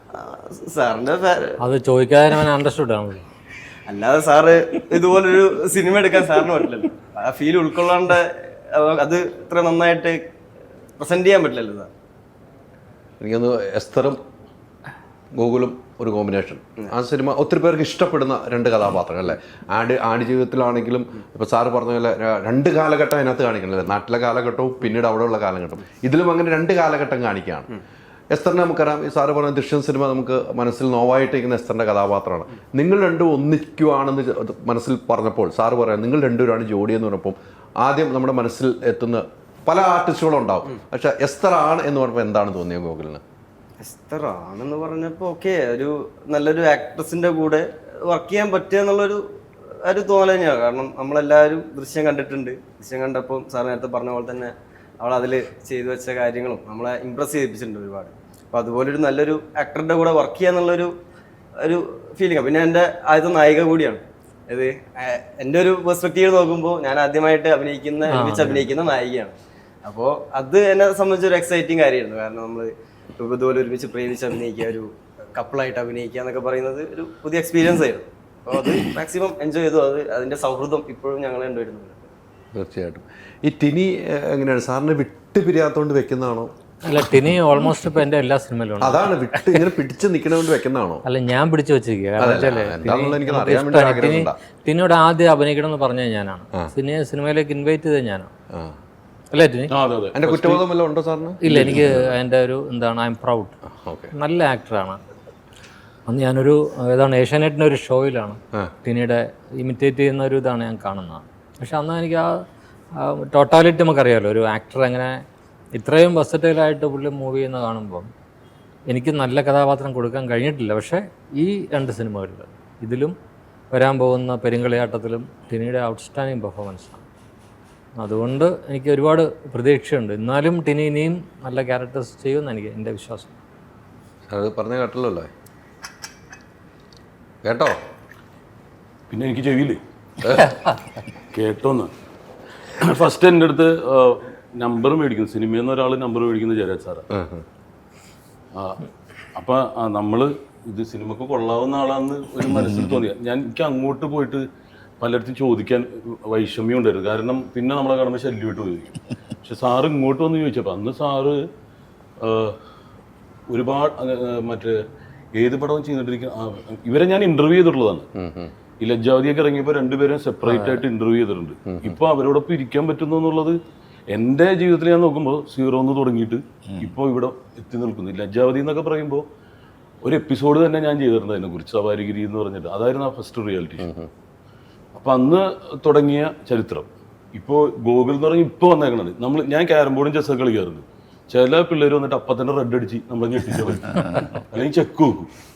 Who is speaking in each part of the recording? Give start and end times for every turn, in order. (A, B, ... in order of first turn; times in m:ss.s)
0:00.2-0:01.6 A
0:01.6-0:03.2 B
0:03.9-0:10.2 A
0:11.0-0:11.9 A
0:13.2-0:14.2 C
0:15.3-0:27.7 C
0:28.3-0:43.2 C
0:43.8-1:00.9 A
1:01.6-1:22.1 A
1:22.6-1:26.5 C
1:26.9-1:29.0 B
1:27.1-1:27.9 C
1:28.8-1:31.0 C
1:31.3-1:38.3 B
1:32.2-1:34.4 C
1:39.7-1:40.6 D
1:40.2-1:42.1 C
1:42.1-1:43.5 B
1:43.7-1:44.1 C
1:44.2-1:45.0 B
1:46.3-1:48.4 B
1:48.9-1:52.3 B
1:53.3-1:55.1 B
1:55.8-1:58.0 B
1:58.9-2:03.1 B
2:03.8-2:07.0 B
2:08.0-2:13.2 B
2:14.3-2:15.3 C
2:17.4-2:17.8 C
2:19.1-2:19.8 D
2:21.3-2:21.9 D
2:22.8-2:27.1 D
2:27.1-2:27.4 C
2:28.5-2:28.8 D
2:29.4-2:34.4 D
2:35.0-2:41.4 D
2:42.2-2:42.6 D
2:43.5-2:44.8 D
2:45.4-2:48.1 D
2:48.2-2:48.5 C
2:48.8-2:53.6 D
2:51.7-2:52.0 C
2:54.1-2:59.2 D
3:00.0-3:03.9 D
3:03.8-3:04.1 C
3:04.9-3:15.3 D